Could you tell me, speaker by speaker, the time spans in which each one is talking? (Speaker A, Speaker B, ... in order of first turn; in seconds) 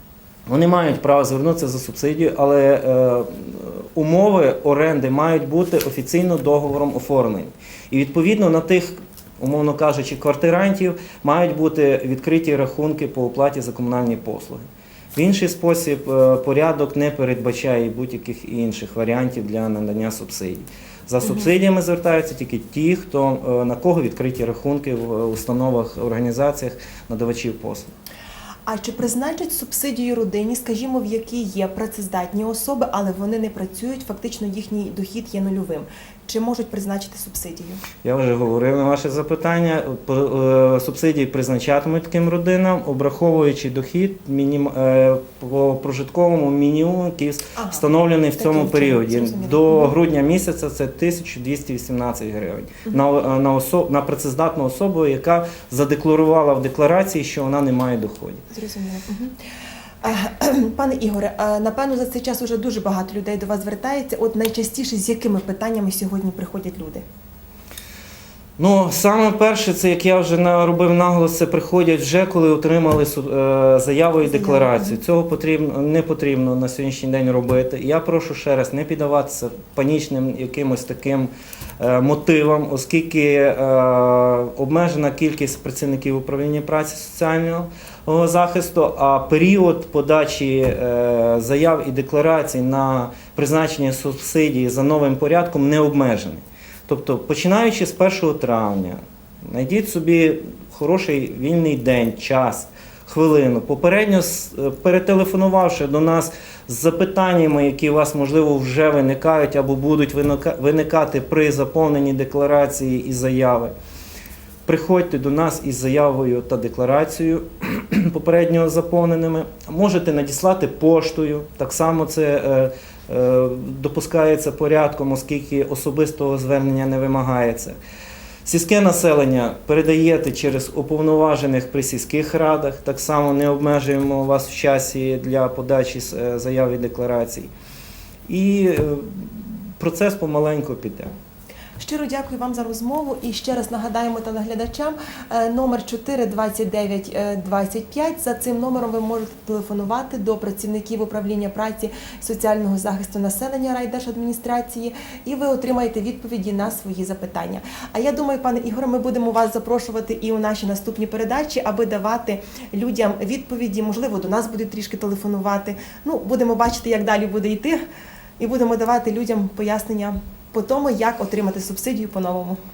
Speaker A: 0.5-27.9, 38.0-58.4, 68.6-113.7, 114.7-127.8, 128.4-137.5, 138.3-141.1
Speaker B: 21.2-21.5, 28.7-37.8, 47.6-47.8, 48.4-50.0, 58.5-59.4, 60.0-67.0, 74.2-75.0, 141.8-167.8, 168.4-172.6